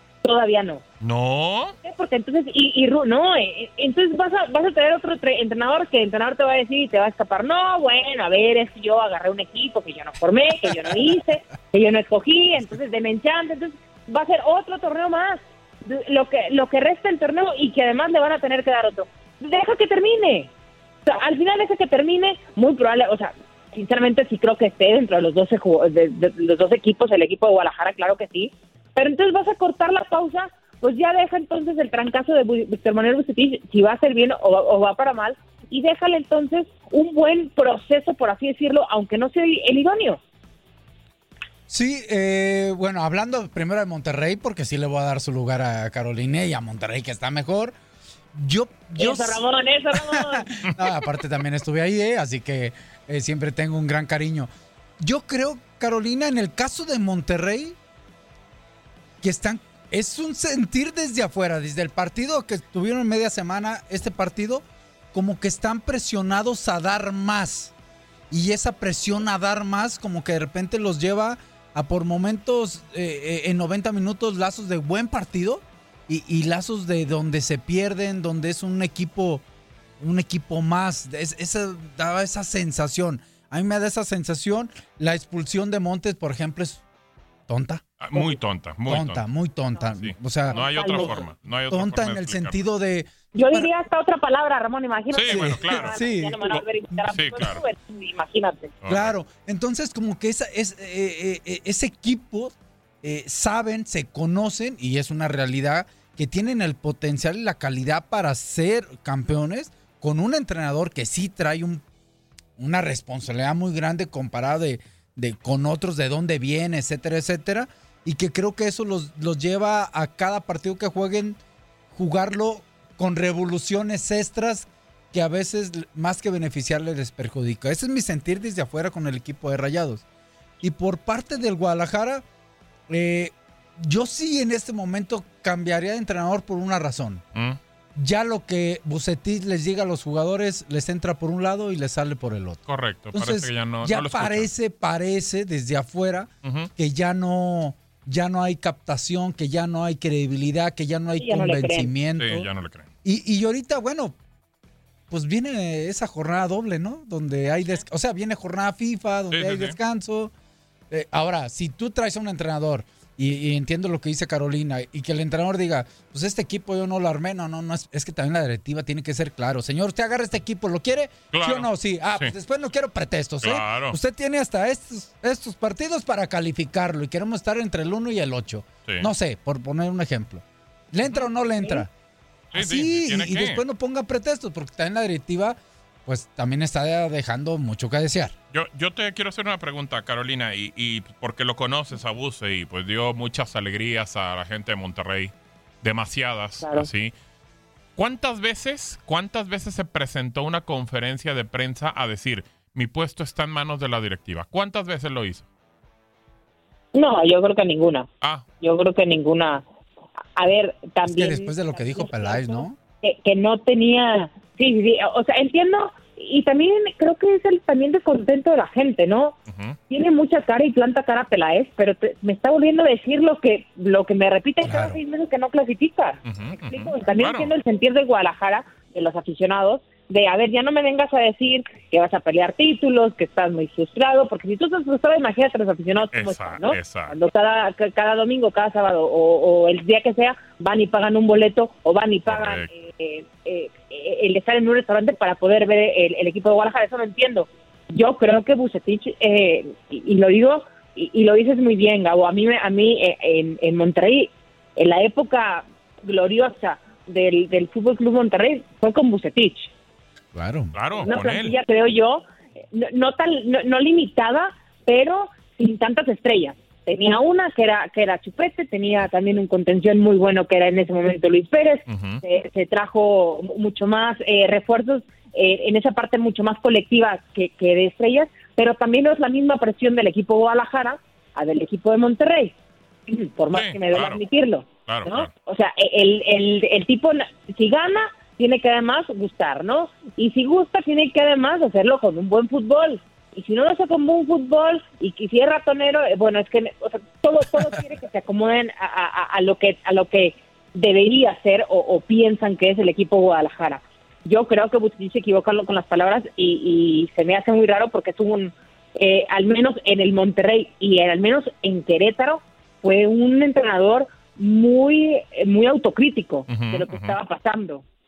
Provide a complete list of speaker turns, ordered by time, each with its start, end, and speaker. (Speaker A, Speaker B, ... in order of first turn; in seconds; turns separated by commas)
Speaker A: 0.2-0.8, Speaker B: 1.0-1.8, Speaker A: 1.8-20.5, Speaker A: 21.1-40.2, Speaker C: 41.7-47.8, Speaker C: 48.3-57.8, Speaker A: 49.0-50.5, Speaker C: 59.2-67.7, Speaker C: 68.3-79.4, Speaker C: 80.0-86.8, Speaker C: 87.5-88.3, Speaker B: 88.0-89.2, Speaker C: 88.9-93.7, Speaker B: 90.0-92.6, Speaker A: 90.5-91.3, Speaker A: 93.3-98.8, Speaker B: 95.1-97.6, Speaker C: 95.3-96.4, Speaker B: 98.8-99.1, Speaker C: 98.9-111.8, Speaker C: 112.6-121.4, Speaker C: 121.9-130.0, Speaker C: 130.6-132.2, Speaker C: 132.9-137.2, Speaker B: 137.3-137.6, Speaker C: 138.0-142.6, Speaker B: 142.7-144.5, Speaker C: 143.1-152.5, Speaker B: 146.4-146.7, Speaker A: 151.2-151.9, Speaker B: 152.2-152.9, Speaker C: 153.0-154.2, Speaker C: 155.1-160.3, Speaker B: 159.3-159.8, Speaker C: 160.9-181.9, Speaker B: 171.3-172.3, Speaker B: 173.4-174.0, Speaker B: 182.5-183.6, Speaker C: 182.5-188.3, Speaker B: 188.5-197.1, Speaker A: 196.6-196.9, Speaker B: 198.0-205.5, Speaker A: 206.9-208.1, Speaker A: 208.6-209.7, Speaker A: 210.4-219.4, Speaker C: 211.0-212.8, Speaker B: 219.5-219.8, Speaker A: 219.9-259.7, Speaker C: 224.6-225.0, Speaker B: 226.3-227.5, Speaker B: 236.1-237.2, Speaker B: 242.3-242.7, Speaker C: 260.3-261.1, Speaker B: 260.7-261.6, Speaker A: 261.0-282.6, Speaker B: 271.9-272.2, Speaker A: 283.1-317.8, Speaker B: 283.5-284.2, Speaker B: 284.9-285.3, Speaker B: 316.5-317.2